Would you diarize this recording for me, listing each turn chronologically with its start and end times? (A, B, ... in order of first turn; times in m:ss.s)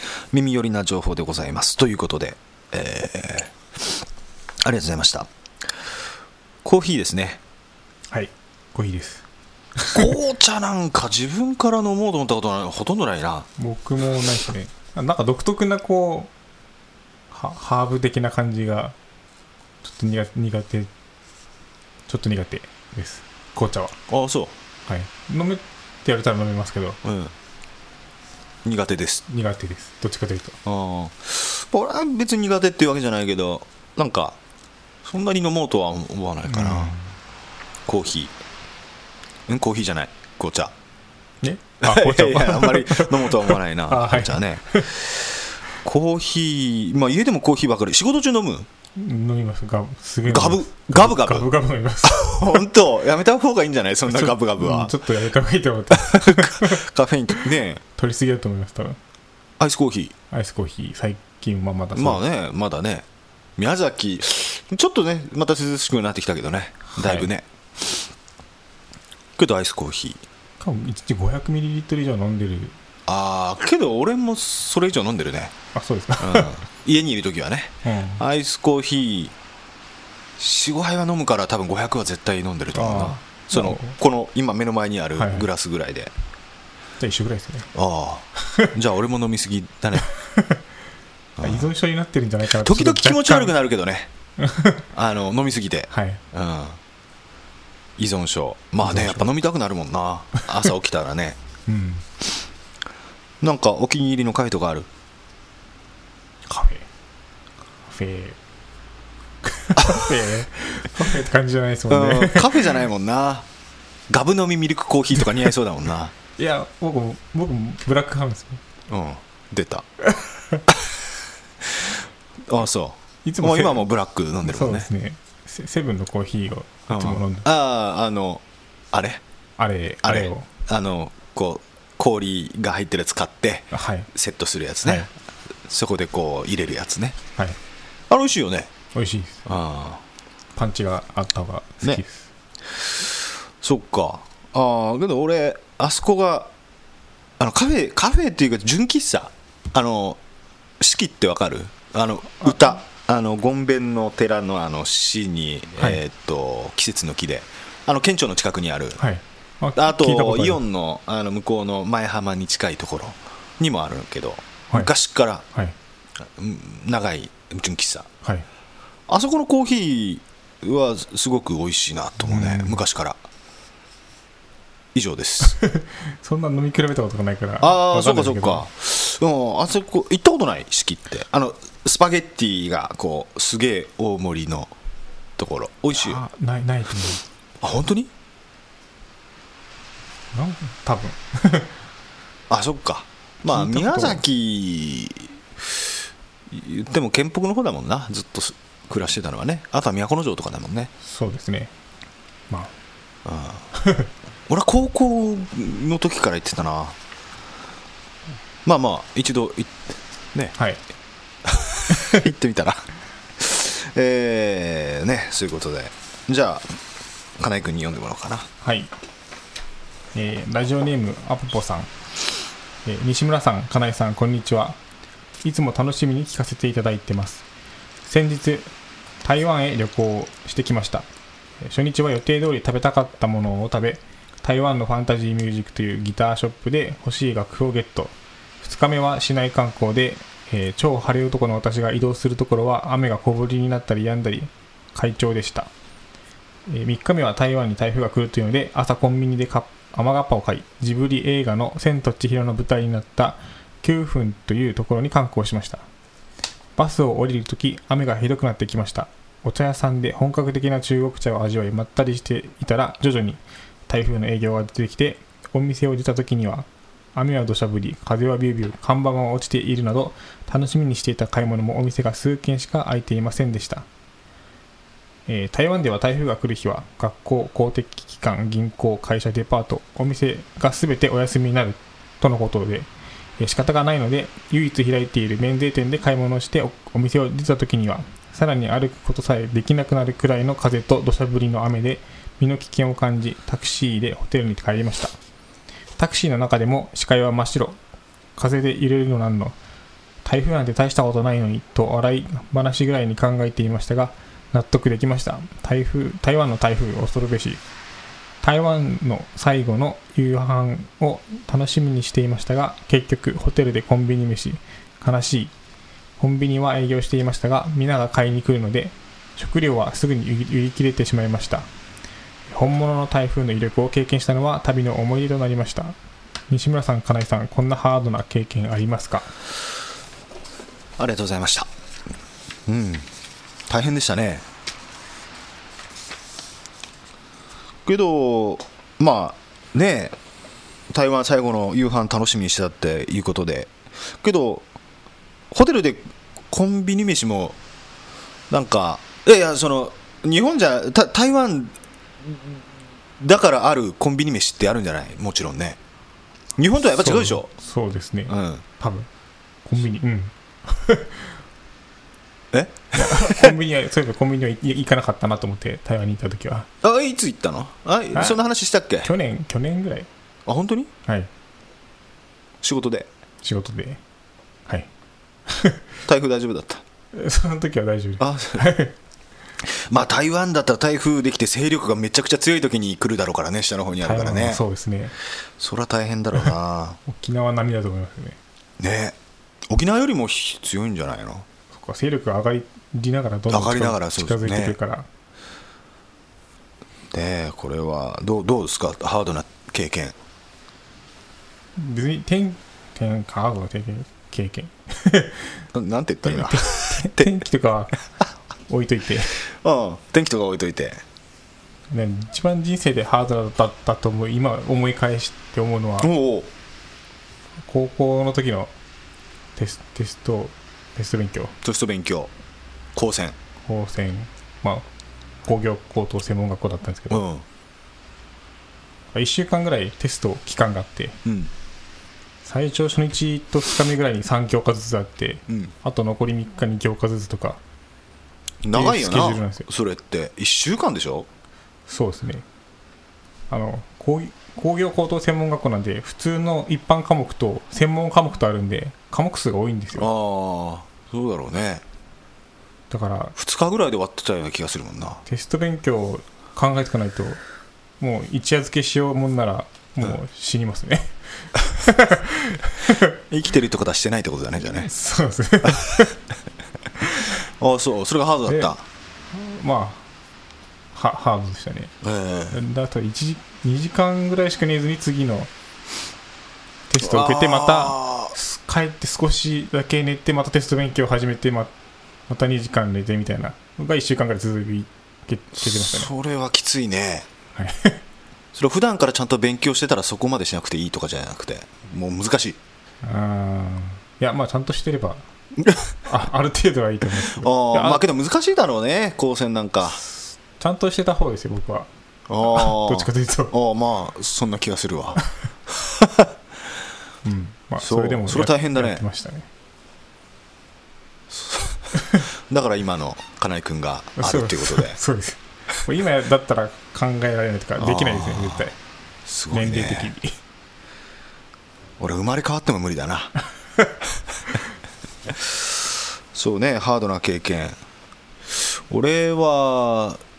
0:00.3-0:03.6 A
0:04.6-0:05.3 A
0:06.6-0:07.4 A
0:08.1-0:09.2 B
0:09.8-0:10.1 B
0:09.9-0:13.5 A
0:13.6-0:16.3 B
0:17.3-0:19.0 B
0:19.8-0:20.9 B
0:22.1-0:24.0 B
0:24.1-0:24.5 A
0:24.9-0:27.0 B
0:27.0-0:27.4 A
0:28.6-0:29.2 A
0:29.3-0:30.6 B
0:30.6-0:34.4 A
0:35.0-0:37.0 A
0:36.5-0:37.1 B
0:37.9-0:38.3 A
0:39.5-0:40.7 A
0:41.4-0:44.9 B
0:41.8-0:48.7 A
0:49.0-0:52.7 B
0:50.3-0:51.5 A
0:52.0-0:55.0 A
0:54.1-0:56.8 B
0:55.9-0:57.8 A
0:58.0-0:59.0 B
0:59.6-1:00.2 A
1:00.3-1:02.2 B
1:02.0-1:03.1 A
1:03.6-1:08.0 A
1:06.9-1:07.3 B
1:09.4-1:10.2 A
1:10.6-1:12.8 B
1:13.1-1:15.5 A
1:15.8-1:16.6 B
1:16.2-1:19.3 A
1:17.8-1:18.2 B
1:20.4-1:26.1 A
1:22.7-1:24.0 B
1:25.2-1:25.5 B
1:27.0-1:27.7 B
1:27.8-1:30.1 A
1:28.4-1:28.7 B
1:30.0-1:30.6 B
1:31.4-1:31.7 A
1:31.4-1:33.5 B
1:32.5-1:34.1 A
1:34.4-1:34.8 B
1:34.9-1:36.8 A
1:35.9-1:36.2 B
1:38.0-1:41.4 A
1:38.8-1:39.3 B
1:41.7-1:42.1 B
1:43.4-1:44.9 A
1:46.5-1:46.9 B
1:47.9-1:48.4 B
1:49.4-1:52.8 B
1:49.8-1:50.1 A
1:51.9-1:53.5 A
1:54.1-1:56.1 A
1:56.4-1:58.6 B
1:58.9-1:59.9 A
2:00.1-2:00.6 B
2:01.6-2:04.9 A
2:03.2-2:03.8 B
2:04.4-2:07.5 B
2:06.9-2:09.2 A
2:09.6-2:10.5 B
2:10.0-2:15.1 A
2:13.7-2:14.1 B
2:15.6-2:17.2 A
2:18.1-2:18.7 A
2:18.9-2:19.4 B
2:19.5-2:20.0 A
2:20.6-2:22.3 B
2:22.7-2:26.5 A
2:27.4-2:30.2 A
2:30.8-2:39.0 A
2:39.0-2:40.6 B
2:39.8-2:45.4 A
2:46.2-2:48.1 A
2:49.1-2:53.2 A
2:52.2-2:52.8 B
2:54.9-2:55.6 A
2:55.4-2:58.7 B
2:57.6-3:04.7 A
3:05.4-3:06.2 A
3:06.0-3:07.2 B
3:07.6-3:08.1 A
3:10.3-3:11.7 B
3:12.5-3:20.9 A
3:13.5-3:14.2 B
3:21.0-3:21.7 B
3:23.2-3:23.7 A
3:23.8-3:24.1 B
3:24.5-3:27.0 A
3:28.6-3:29.8 A
3:30.6-3:30.8 B
3:31.4-3:32.8 A
3:31.9-3:32.2 B
3:33.4-3:36.6 A
3:37.4-3:38.5 A
3:38.6-3:38.9 B
3:40.2-3:41.9 B
3:42.8-3:44.8 B
3:45.4-3:47.4 B
3:48.1-3:48.7 B
3:49.2-3:51.1 B
3:51.6-4:05.7 B
4:06.7-4:15.9 B
4:16.8-4:33.9 B
4:35.3-4:55.1 B
4:56.0-4:57.8 B
4:58.4-4:59.6 B
5:00.2-5:07.6 B
5:08.4-5:15.5 B
5:16.2-5:21.7 B
5:22.5-5:26.0 B
5:26.5-5:29.3 B
5:31.0-5:31.7 A
5:32.7-5:33.1 A
5:33.7-5:34.5 A
5:37.9-5:40.2 A
5:40.9-5:44.7 A
5:45.5-5:47.6 A
5:48.5-5:51.8 A
5:53.2-5:55.8 A
5:56.6-5:57.5 A
5:57.0-5:59.1 B
5:58.3-5:58.6 A
5:59.6-6:01.3 B
6:02.5-6:03.5 A
6:03.0-6:06.7 B
6:06.8-6:09.1 A
6:09.0-6:10.1 B
6:10.5-6:10.9 A
6:12.6-6:13.1 A
6:13.4-6:14.0 B
6:15.5-6:15.8 B
6:16.1-6:16.8 A
6:17.1-6:19.0 B
6:18.2-6:18.7 A
6:19.6-6:24.6 A
6:24.0-6:25.1 B
6:25.6-6:27.0 A
6:27.1-6:28.4 B
6:28.8-6:29.2 A
6:29.7-6:31.5 A
6:31.7-6:35.1 B
6:33.5-6:34.8 A
6:37.1-6:40.2 A
6:41.8-6:45.6 B
6:45.7-6:47.3 A
6:46.2-6:48.0 B
6:48.7-6:49.4 B
6:49.5-6:51.0 A
6:51.9-6:56.1 B
6:56.0-6:56.5 A
6:57.6-6:58.7 B
6:59.6-7:01.6 B
7:01.6-7:02.3 A
7:03.0-7:03.4 A
7:03.6-7:04.8 B
7:05.4-7:07.2 B
7:07.1-7:07.4 A
7:09.1-7:11.2 B
7:11.2-7:11.5 A
7:12.4-7:17.6 B
7:18.6-7:21.3 A
7:18.7-7:19.7 B
7:21.9-7:22.4 B
7:23.5-7:30.1 B
7:30.0-7:31.8 A
7:32.9-7:33.4 B
7:33.4-7:35.2 A
7:35.3-7:37.4 B
7:38.0-7:43.2 B
7:43.3-7:44.9 A
7:44.7-7:46.2 B
7:47.2-7:48.8 A
7:48.5-7:48.7 B
7:49.3-7:50.0 B
7:50.9-7:51.9 B
7:52.0-7:52.6 A
7:52.5-7:55.5 B
7:56.9-8:01.7 B
7:57.0-7:58.3 A
8:02.3-8:06.1 B
8:05.6-8:07.3 A
8:07.6-8:08.0 B
8:08.5-8:12.6 A
8:13.0-8:15.2 B
8:15.6-8:15.9 A
8:16.1-8:18.0 B
8:17.3-8:20.0 A
8:20.0-8:21.9 B
8:22.3-8:26.3 A
8:22.4-8:23.5 B
8:27.2-8:29.5 B
8:27.8-8:29.0 A
8:31.3-8:35.0 A
8:32.0-8:32.3 B
8:34.2-8:38.8 B
8:37.8-8:38.7 A
8:39.3-8:40.1 A
8:39.5-8:40.3 B
8:42.0-8:43.3 A
8:45.3-8:47.8 A
8:48.5-8:50.2 A